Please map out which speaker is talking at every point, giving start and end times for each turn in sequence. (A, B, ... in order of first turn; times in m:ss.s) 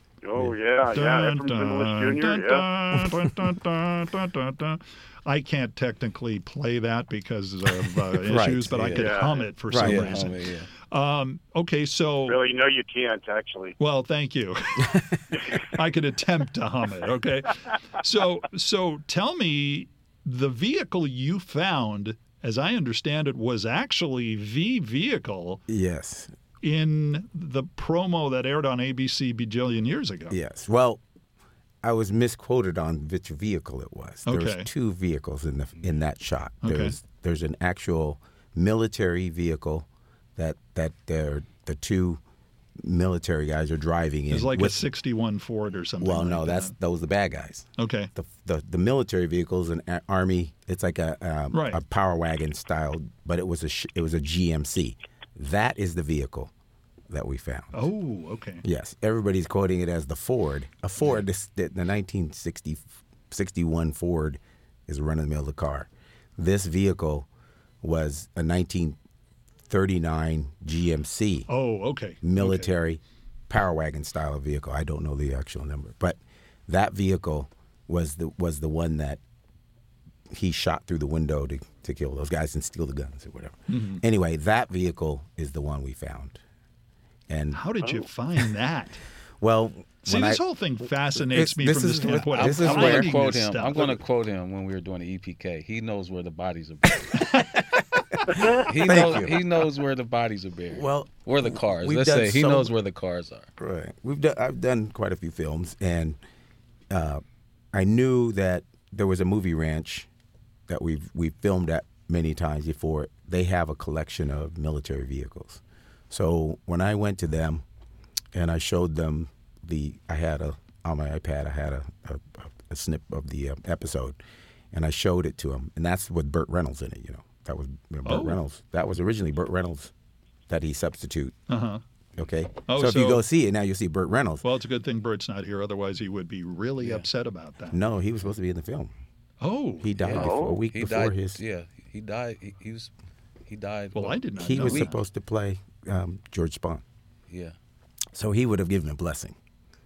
0:00.2-0:02.6 A
0:00.9-0:12.4 B
0:03.0-0:03.3 C
0:08.2-0:09.0 C
0:08.8-0:10.7 D
0:09.0-0:09.5 A
0:09.7-0:10.2 C
0:12.3-0:13.8 A
0:13.8-0:25.6 B
0:25.7-0:26.3 C
0:26.6-0:30.4 B
0:30.3-0:31.0 C
0:31.8-0:42.2 C
0:34.3-0:34.7 B
0:36.6-0:37.0 B
0:42.8-0:44.8 C
0:44.3-0:46.7 B
0:46.0-0:56.5 C
0:47.8-0:48.1 B
0:51.5-0:51.8 B
0:57.1-0:57.8 C
0:57.7-0:58.6 B
0:58.6-1:07.3 C
1:07.8-1:09.0 C
1:09.7-1:11.5 C
1:11.5-1:12.7 B
1:12.2-1:19.2 C
1:20.3-1:26.4 C
1:23.7-1:24.0 B
1:27.3-1:27.6 C
1:27.5-1:29.0 B
1:29.4-1:30.4 C
1:30.1-1:34.0 B
1:31.2-1:33.1 C
1:32.3-1:37.5 D
1:37.6-1:39.4 C
1:38.4-1:43.5 D
1:40.7-1:42.7 C
1:43.6-1:46.2 C
1:46.9-1:47.2 C
1:47.7-1:50.1 C
1:50.7-1:57.6 C
1:58.3-2:04.2 C
2:04.7-2:09.9 C
2:08.0-2:08.4 B
2:10.5-2:11.4 C
2:11.5-2:11.8 B
2:12.2-2:14.4 C
2:12.7-2:13.2 B
2:14.4-2:17.8 B
2:17.7-2:18.9 C
2:19.4-2:20.2 B
2:19.8-2:21.4 C
2:20.0-2:22.9 D
2:20.1-2:20.6 A
2:23.5-2:24.9 D
2:24.0-2:25.0 B
2:24.4-2:26.8 C
2:27.3-2:27.6 D
2:28.1-2:29.4 C